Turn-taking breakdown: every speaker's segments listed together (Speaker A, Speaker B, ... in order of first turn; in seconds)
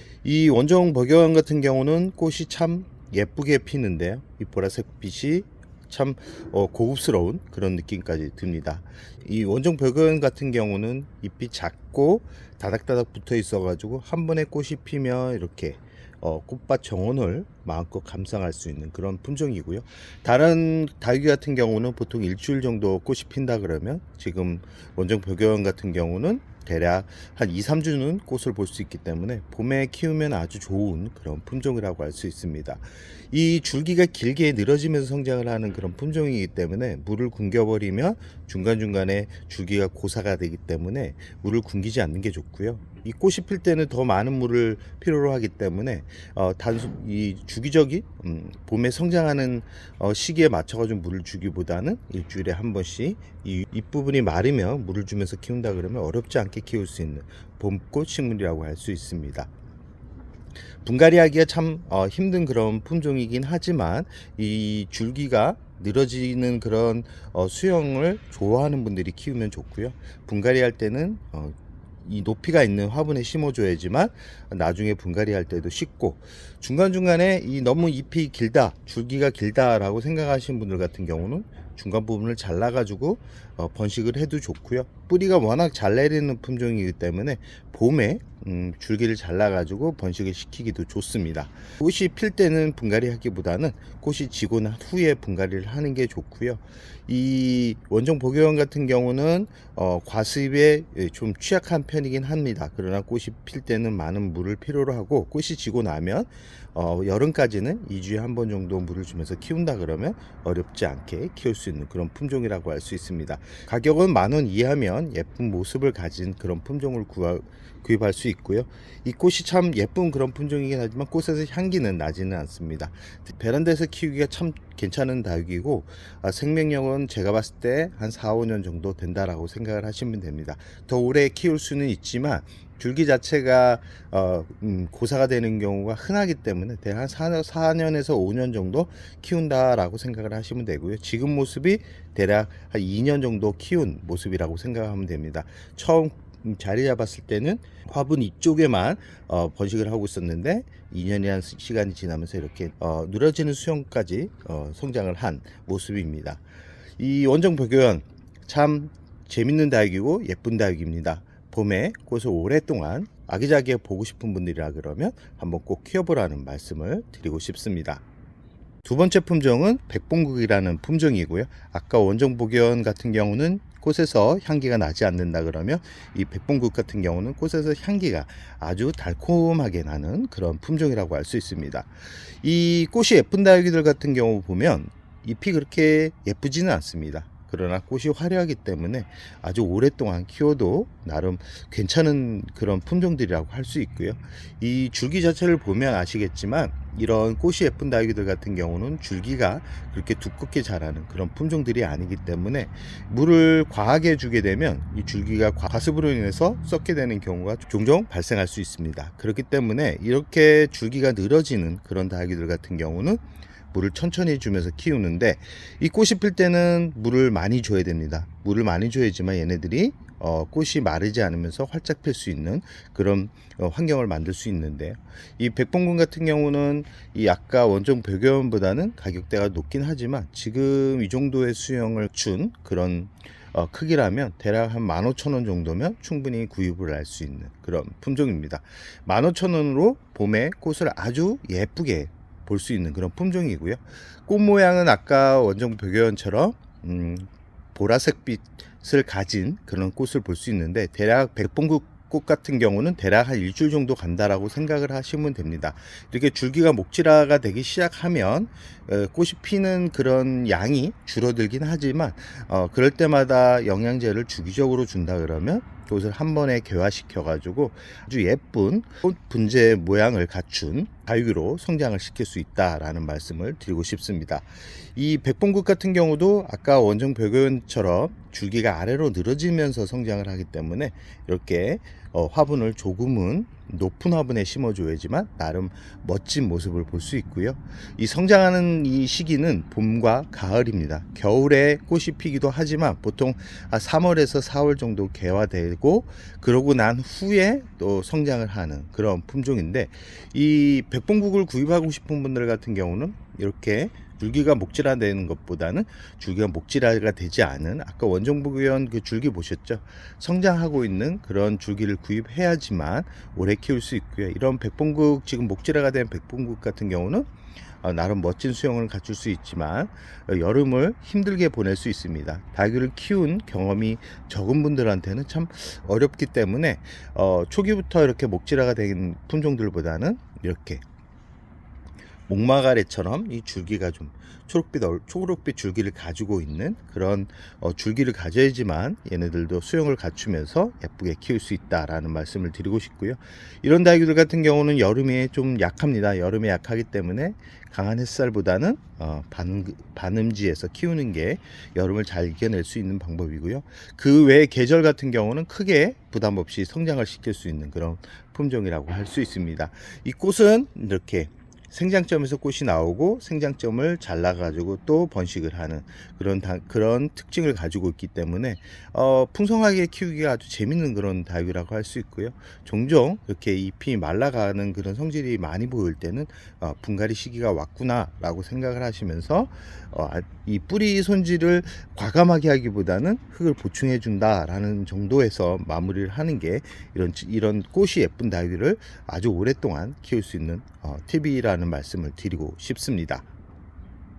Speaker A: 0.2-59.5, 60.8-156.4, 157.0-168.0, 168.8-317.3, 317.8-330.8, 332.3-393.2